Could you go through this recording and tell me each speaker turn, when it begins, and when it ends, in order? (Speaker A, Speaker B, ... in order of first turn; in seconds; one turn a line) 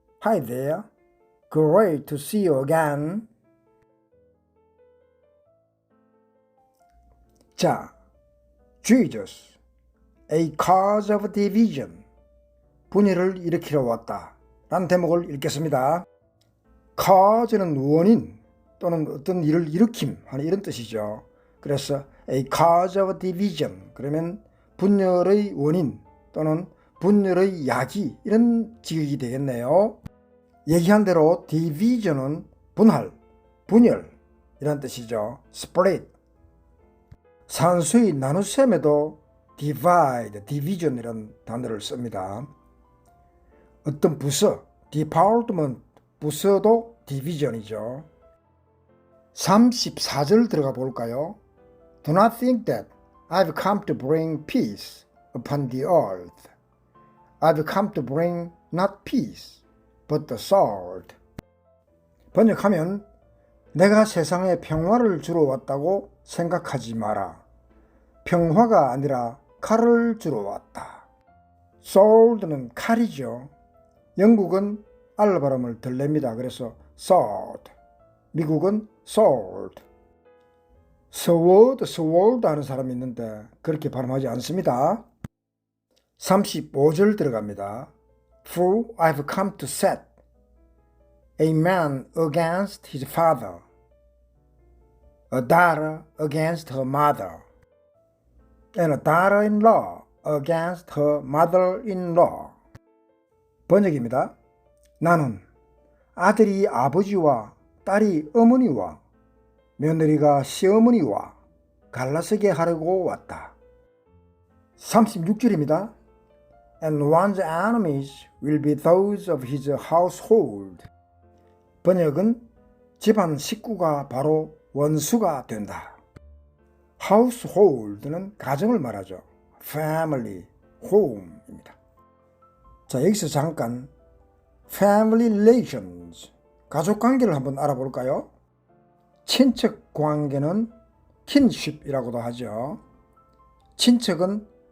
Speaker A: 0.2-0.9
Speaker A: 1.5-3.3
Speaker A: 7.6-7.9
Speaker A: 8.8-9.6
Speaker A: 10.3-12.1
Speaker A: 12.9-16.1
Speaker A: 17.0-30.0
Speaker A: 30.7-36.1
Speaker A: 37.5-42.5
Speaker A: 43.8-48.1
Speaker A: 49.4-51.4
Speaker A: 52.0-56.5
Speaker A: 57.4-61.2
Speaker A: 62.3-63.1
Speaker A: 63.7-67.4
Speaker A: 68.2-71.1
Speaker A: 71.8-73.5
Speaker A: 74.2-77.7
Speaker A: 78.3-79.8
Speaker A: 81.1-85.0
Speaker A: 86.2-87.9
Speaker A: 88.4-90.1
Speaker A: 91.4-93.6
Speaker A: 95.3-97.4
Speaker A: 98.8-102.6
Speaker A: 103.7-104.3
Speaker A: 105.0-105.4
Speaker A: 106.2-109.0
Speaker A: 109.8-111.4
Speaker A: 111.9-113.6
Speaker A: 114.8-115.9
Speaker A: 116.8-120.9
Speaker A: 121.8-122.5
Speaker A: 123.0-126.0
Speaker A: 127.0-131.8
Speaker A: 132.9-133.9
Speaker A: 134.7-138.3
Speaker A: 139.2-140.7
Speaker A: 141.3-142.8
Speaker A: 143.8-144.5